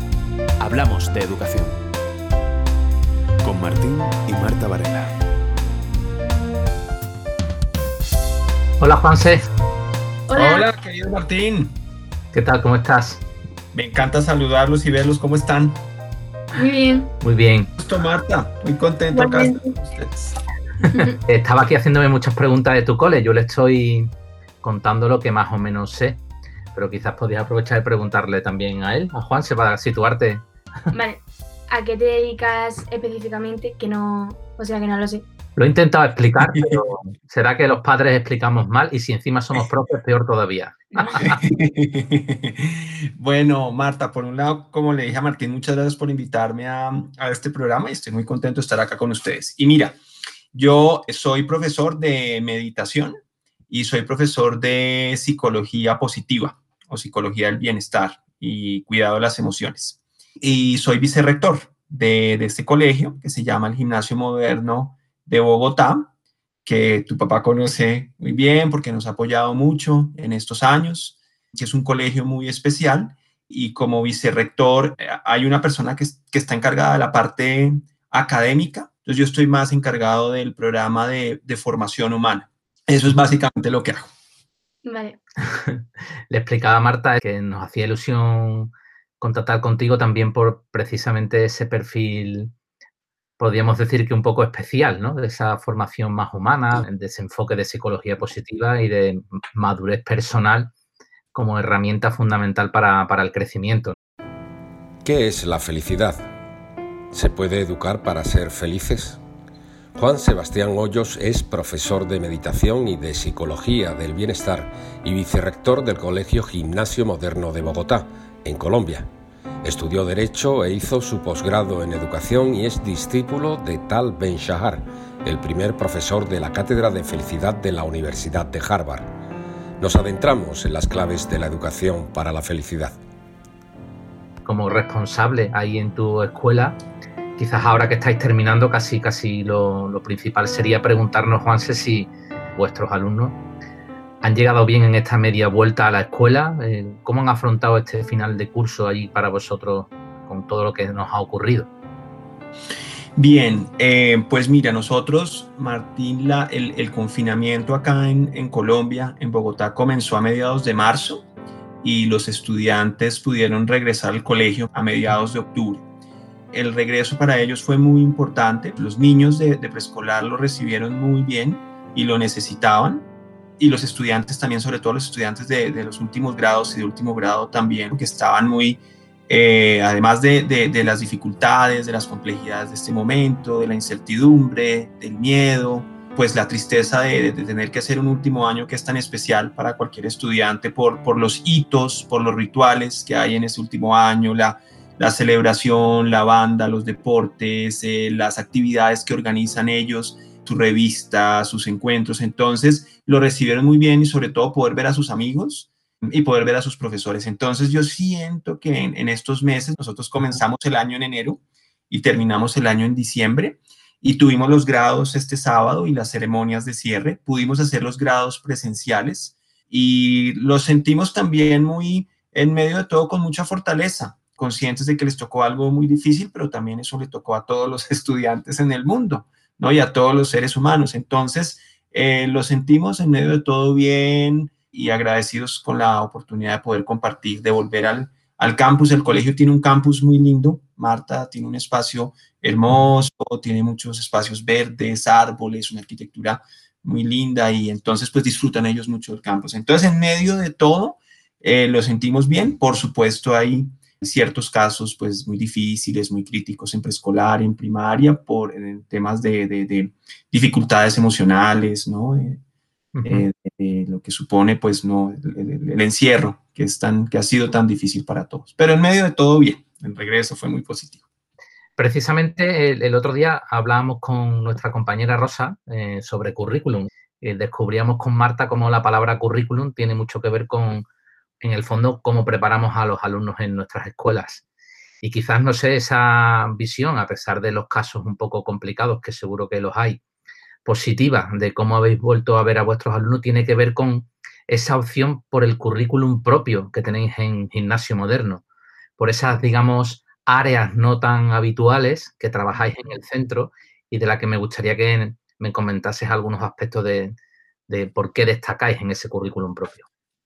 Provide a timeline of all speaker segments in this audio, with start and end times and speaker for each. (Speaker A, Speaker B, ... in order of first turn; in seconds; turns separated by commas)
Speaker A: 0.6-1.8, Speaker A: 3.4-5.1, Speaker B: 8.8-9.4, Speaker C: 10.3-10.7, Speaker D: 10.3-11.7, Speaker B: 12.3-13.2, Speaker D: 13.7-15.8, Speaker C: 16.6-17.1, Speaker B: 17.2-17.7, Speaker D: 17.8-20.4, Speaker C: 19.1-19.7, Speaker B: 21.2-24.1, Speaker B: 24.6-26.2, Speaker B: 26.8-30.4, Speaker C: 30.9-35.2, Speaker B: 35.6-41.4, Speaker D: 36.5-36.8, Speaker C: 41.0-41.2, Speaker D: 41.2-50.0, Speaker D: 50.5-53.1, Speaker D: 53.7-66.1, Speaker D: 66.7-84.1, Speaker C: 84.8-85.2, Speaker B: 85.4-92.5, Speaker B: 93.4-100.7, Speaker B: 101.3-104.0, Speaker E: 105.0-106.3, Speaker E: 107.1-109.2, Speaker E: 110.0-119.1, Speaker E: 119.6-129.1, Speaker E: 129.8-133.0, Speaker B: 134.4-136.8, Speaker B: 137.4-143.4, Speaker B: 144.2-151.7, Speaker D: 153.2-161.3, Speaker D: 161.8-165.9, Speaker D: 166.5-173.1, Speaker D: 173.6-262.4, Speaker B: 262.9-263.3, Speaker D: 263.1-271.0, Speaker B: 271.8-280.9, Speaker B: 281.4-284.4, Speaker B: 285.0-290.0, Speaker B: 290.6-298.4, Speaker B: 299.0-307.2, Speaker B: 307.7-309.9